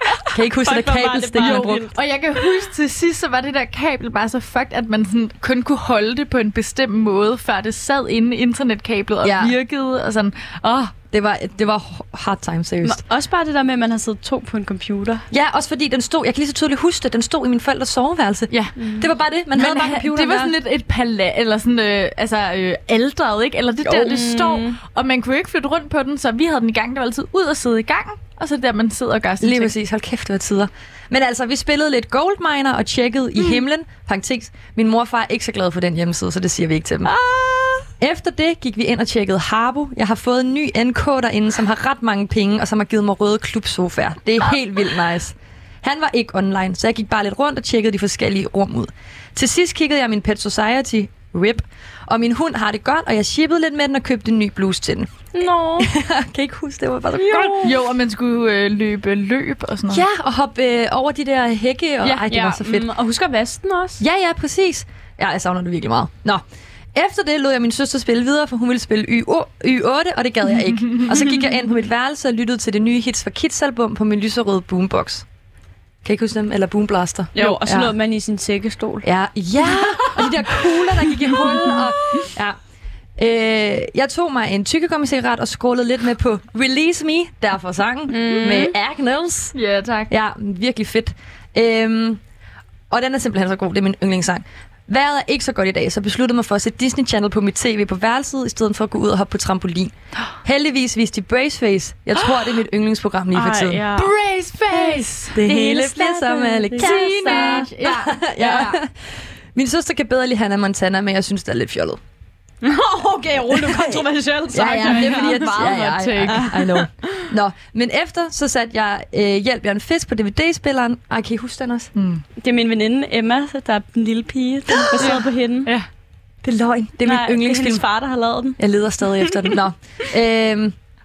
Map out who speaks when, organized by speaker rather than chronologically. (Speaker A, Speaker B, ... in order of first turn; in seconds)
Speaker A: 0.3-1.8, 9.2-9.6, 11.1-13.0, 15.3-20.5, 29.4-37.1, 38.0-55.1, 55.8-57.7, 59.9-62.9, 64.0-66.4, 67.0-75.2, 76.0-77.9, 79.0-82.6, 83.2-89.5, 90.1-92.2, 92.9-99.9, 100.4-103.8, 105.3-108.9, 109.5-112.0, 113.5-121.9, 124.7-125.2, 126.4-127.8, 128.6-130.7
Speaker B: 0.5-2.0, 12.8-15.2, 18.8-19.1, 23.8-24.8, 37.3-37.8, 55.3-55.9, 57.1-57.7, 62.0-64.0, 77.3-79.1, 88.1-88.7, 103.3-104.1, 104.8-107.7, 112.6-116.9, 122.4-125.7, 127.0-128.6
Speaker C: 1.4-10.9, 18.5-18.8, 19.5-29.7, 57.6-60.0, 70.9-71.4, 79.8-80.7, 88.3-88.6, 89.5-90.1, 104.0-105.4, 106.8-108.8, 114.8-116.5, 122.0-122.2, 125.0-125.9